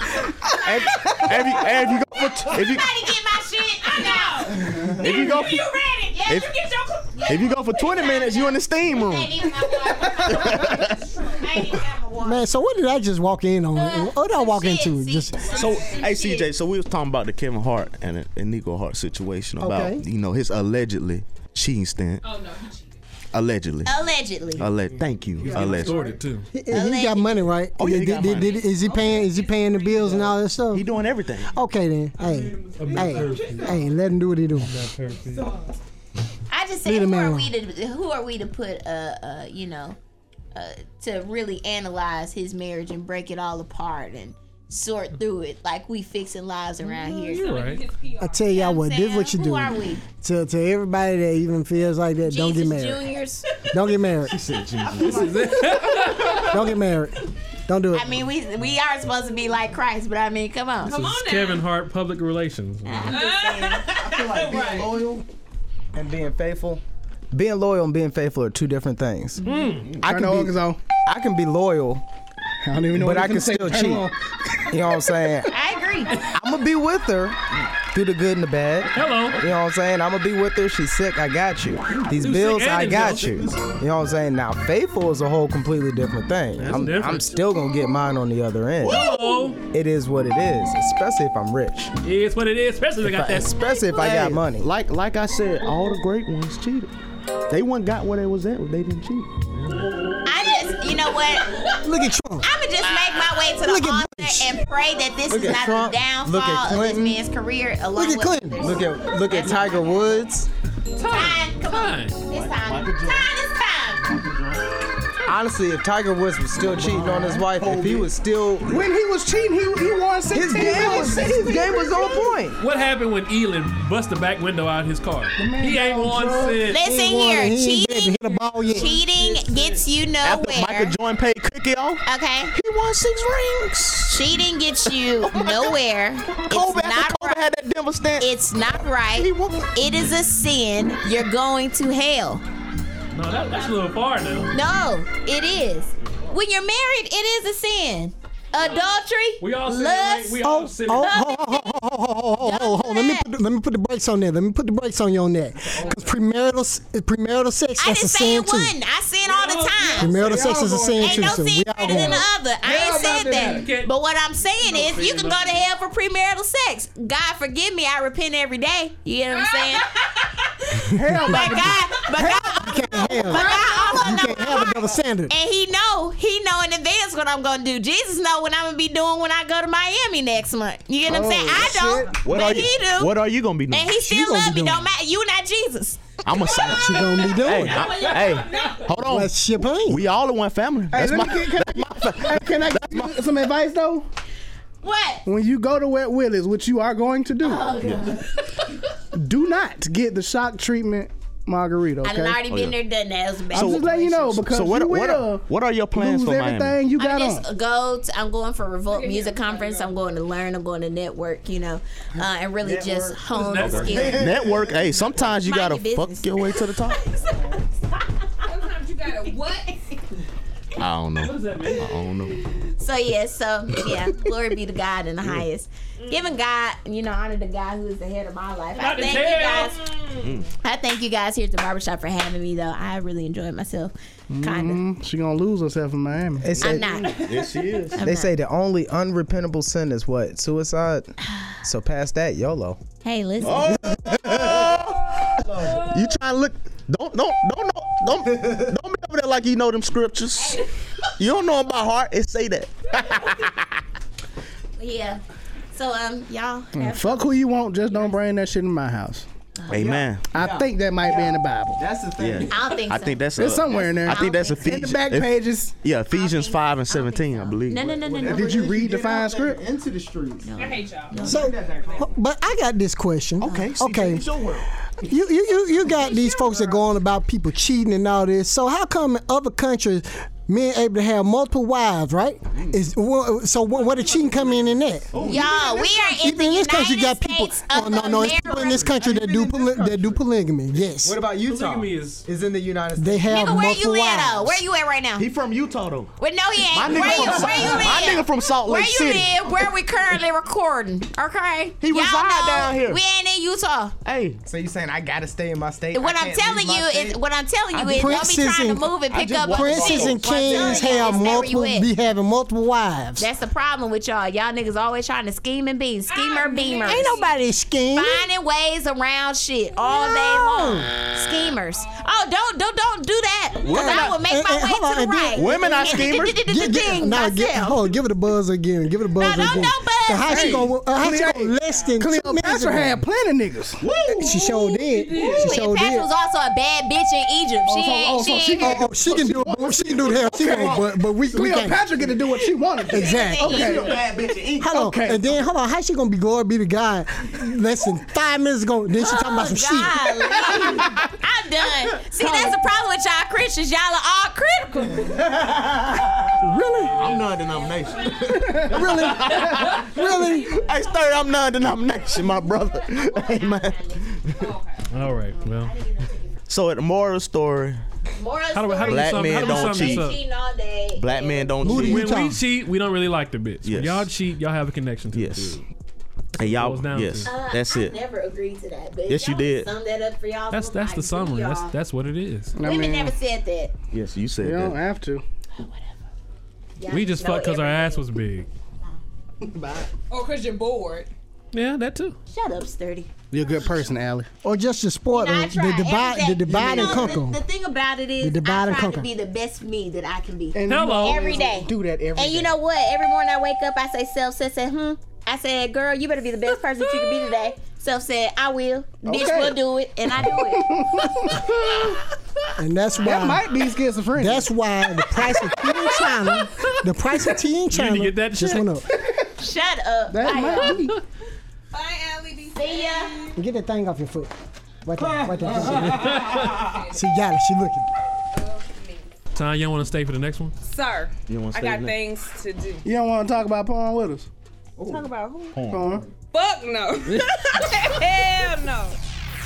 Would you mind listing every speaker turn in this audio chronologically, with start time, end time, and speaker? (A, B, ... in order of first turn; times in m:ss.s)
0:00.5-0:01.6 A
0:00.7-0:02.9 B
0:00.7-0:01.3 C
0:02.5-0:12.4 A
0:04.9-0:05.7 B
0:06.2-0:06.5 B
0:07.2-0:09.6 B
0:10.2-0:11.1 B
0:12.2-0:15.5 D
0:13.7-0:16.5 A
0:15.4-0:16.1 E
0:15.5-0:22.2 B
0:19.6-0:20.0 D
0:22.2-0:23.0 E
0:23.3-0:24.0 B
0:23.8-0:24.7 A
0:24.6-0:26.2 B
0:25.4-0:26.5 F
0:25.4-0:26.2 G
0:26.5-0:30.9 D
0:26.7-0:27.5 A
0:27.8-0:28.6 B
0:28.2-0:30.2 E
0:30.2-0:31.5 B
0:31.5-0:34.8 D
0:32.2-0:33.9 F
0:32.9-0:33.5 G
0:33.0-0:33.5 C
0:34.6-0:35.5 F
0:36.5-0:40.0 A
0:36.8-0:37.5 D
0:40.5-0:47.5 A
0:46.8-0:48.6 E
0:47.3-0:47.8 F
0:48.2-0:53.0 D
0:48.5-0:50.0 A
0:52.2-0:53.4 A
0:53.7-0:54.4 D
0:54.2-0:56.6 B
0:55.0-0:56.6 F
0:56.5-0:58.1 D
0:57.9-1:01.1 A
1:00.8-1:01.6 E
1:00.8-1:03.2 F
1:02.8-1:03.9 A
1:03.1-1:05.0 E
1:03.9-1:05.2 C
1:05.9-1:09.4 C
1:09.4-1:10.0 F
1:10.0-1:12.0 C
1:10.0-1:10.8 G
1:12.6-1:14.2 G
1:12.9-1:14.1 C
1:14.7-1:15.5 C
1:15.5-1:16.2 A
1:16.3-1:17.4 C
1:17.9-1:29.0 C
1:18.9-1:19.4 F
1:22.1-1:23.4 F
1:23.3-1:23.8 B
1:26.6-1:27.4 F
1:28.8-1:29.5 B
1:28.8-1:29.6 F
1:29.7-1:31.9 C
1:32.0-1:33.5 F
1:33.0-1:34.7 C
1:34.0-1:36.9 B
1:37.5-1:39.3 B
1:39.5-1:39.9 F
1:40.2-1:41.6 A
1:41.8-1:42.5 D
1:42.4-1:50.0 A
1:43.6-1:44.6 D
1:45.3-1:47.2 C
1:47.9-1:48.8 D
1:48.6-1:50.5 C
1:51.0-1:52.2 F
1:51.1-1:54.1 A
1:52.3-1:53.3 B
1:54.1-1:54.7 B
1:55.2-1:58.8 C
1:56.6-1:58.1 B
1:58.6-2:02.4 G
2:00.3-2:02.6 C
2:02.6-2:06.9 F
2:05.4-2:06.7 G
2:06.6-2:10.9 A
2:06.8-2:08.9 D
2:08.6-2:09.8 F
2:10.2-2:15.8 B
2:12.0-2:12.5 A
2:14.1-2:17.4 A
2:16.3-2:18.3 B
2:18.2-2:22.4 A
2:19.1-2:19.7 B
2:23.1-2:24.5 F
2:24.5-2:31.7 A
2:29.4-2:31.3 F
2:30.4-2:38.8 D
2:32.4-2:33.3 A
2:35.6-2:36.2 F
2:37.8-2:40.2 A
2:39.2-2:40.4 F
2:40.0-2:42.2 D
2:40.2-2:42.0 G
2:41.0-2:49.9 A
2:42.6-2:43.8 G
2:42.8-2:43.9 F
2:44.6-2:45.6 G
2:49.3-2:50.3 E
2:50.9-2:54.4 G
2:51.1-2:51.4 D
2:51.2-3:03.1 A
2:52.6-2:55.3 D
3:01.0-3:02.2 G
3:02.2-3:04.0 B
3:03.7-3:08.8 A
3:04.0-3:04.8 D
3:06.2-3:13.3 B
3:06.7-3:07.8 D
3:07.7-3:08.8 F
3:08.0-3:08.8 E
3:09.0-3:10.0 D
3:10.9-3:14.1 G
3:14.8-3:15.2 A
3:15.2-3:17.7 G
3:17.4-3:18.8 A
3:17.8-3:18.1 B
3:19.1-3:22.4 G
3:22.0-3:24.1 A
3:22.5-3:22.8 B
3:23.5-3:26.8 B
3:23.5-3:27.4 G
3:27.0-3:34.3 A
3:28.9-3:30.0 E
3:32.6-3:34.8 C
3:33.4-3:34.2 F
3:33.7-3:37.0 B
3:35.4-3:36.6 A
3:38.5-3:39.7 E
3:40.8-3:42.4 B
3:41.2-3:42.1 F
3:42.7-3:49.8 A
3:48.8-3:50.3 F
3:50.2-3:50.5 B
3:50.6-3:54.8 A
3:54.3-3:56.6 G
3:56.4-3:57.0 C
3:56.6-3:57.2 A
3:57.0-3:58.1 B
3:57.0-3:57.4 E
3:57.9-3:58.3 A
3:58.0-4:02.8 C
4:01.3-4:01.6 A
4:03.0-4:03.7 A
4:03.4-4:10.6 B
4:03.8-4:04.6 C
4:10.4-4:10.7 A
4:11.2-4:13.8 B
4:14.8-4:15.2 A
4:15.7-4:17.2 A
4:16.7-4:19.2 G
4:19.7-4:20.3 B
4:19.7-4:22.5 C
4:20.3-4:21.8 G
4:22.2-4:28.1 B
4:22.5-4:24.7 A
4:23.4-4:25.7 G
4:26.1-4:28.7 A
4:27.9-4:30.5 C
4:28.2-4:29.6 G
4:30.4-4:31.8 A
4:30.6-4:31.9 E
4:31.2-4:34.3 D
4:31.2-4:32.1 C
4:33.4-4:34.7 B
4:35.1-4:45.3 D
4:35.8-4:36.8 E
4:45.1-4:45.7 F
4:45.2-4:48.9 A
4:45.8-4:51.2 D
4:48.8-4:50.2 C
4:50.8-4:53.4 C
4:51.3-4:52.3 F
4:53.0-4:54.6 D
4:53.3-4:55.2 A
4:55.2-4:56.1 B
4:56.2-5:03.9 A
4:56.7-4:59.4 B
4:56.9-4:58.1 C
5:01.8-5:03.0 B
5:04.0-5:04.4 B
5:04.4-5:07.2 C
5:05.9-5:11.9 A
5:07.7-5:08.2 B
5:07.8-5:13.3 D
5:09.1-5:11.4 B
5:13.2-5:17.2 A
5:16.1-5:17.3 E
5:16.8-5:18.2 D
5:17.9-5:27.9 A
5:20.0-5:20.9 D
5:23.6-5:24.2 B
5:23.7-5:33.0 D
5:25.3-5:26.4 B
5:29.2-5:30.7 A
5:30.2-5:33.8 G
5:33.8-5:34.4 B
5:34.1-5:36.1 D
5:34.4-5:38.8 A
5:34.9-5:35.6 F
5:37.6-5:39.4 G
5:38.6-5:41.8 D
5:39.0-5:42.2 B
5:40.0-5:44.0 G
5:42.9-5:43.5 D
5:42.9-5:44.0 A
5:43.4-5:44.8 B
5:44.6-5:50.2 D
5:44.6-5:45.3 G
5:48.9-5:55.1 A
5:52.2-5:52.5 G
5:55.1-5:56.3 B
5:56.4-5:57.0 D
5:56.9-6:04.5 B
5:58.5-5:58.8 G
5:58.7-6:00.6 D
5:59.3-5:59.9 F
6:00.2-6:00.9 E
6:02.1-6:04.2 A
6:04.3-6:04.9 E
6:04.9-6:05.7 F
6:05.2-6:06.3 A
6:06.5-6:07.8 B
6:08.1-6:11.6 A
6:08.5-6:10.2 F
6:08.8-6:10.1 B
6:11.0-6:12.2 B
6:11.6-6:12.4 D
6:11.6-6:15.6 F
6:13.6-6:14.1 B
6:15.1-6:15.6 B
6:16.4-6:17.3 F
6:16.4-6:18.0 B
6:17.2-6:21.7 A
6:19.1-6:19.7 B
6:20.5-6:22.6 F
6:22.5-6:23.1 G
6:22.6-6:23.7 A
6:23.9-6:24.8 B
6:24.4-6:25.2 G
6:25.6-6:25.9 A
6:26.8-6:28.0 A
6:26.9-6:28.5 F
6:29.4-6:29.9 G
6:30.1-6:31.1 E
6:31.5-6:32.2 F
6:32.3-6:33.1 A
6:33.3-6:34.3 G
6:34.4-6:37.4 D
6:35.1-6:50.8 A
6:36.8-6:37.0 G
6:38.2-6:39.1 D
6:40.5-6:42.5 G
6:40.7-6:41.3 F
6:49.0-6:49.6 G
6:50.2-6:52.0 G
6:52.6-6:53.4 D
6:53.0-6:54.5 G
6:54.2-6:58.9 D
6:55.2-6:56.8 G
6:57.7-6:58.7 F
6:58.9-6:59.3 G
6:59.4-7:00.7 A
7:00.1-7:01.0 G
7:01.7-7:03.4 E
7:02.5-7:03.2 A
7:03.4-7:04.3 D
7:04.8-7:06.2 D
7:05.3-7:06.4 C
7:05.8-7:06.7 F
7:06.2-7:07.0 E
7:06.9-7:07.9 D
7:08.3-7:09.1 E
7:09.3-7:10.5 F
7:10.6-7:12.8 E
7:11.3-7:11.9 B
7:12.8-7:14.3 G
7:14.8-7:15.6 E
7:15.5-7:16.0 B
7:15.7-7:16.0 G
7:16.3-7:19.0 E
7:17.1-7:17.4 F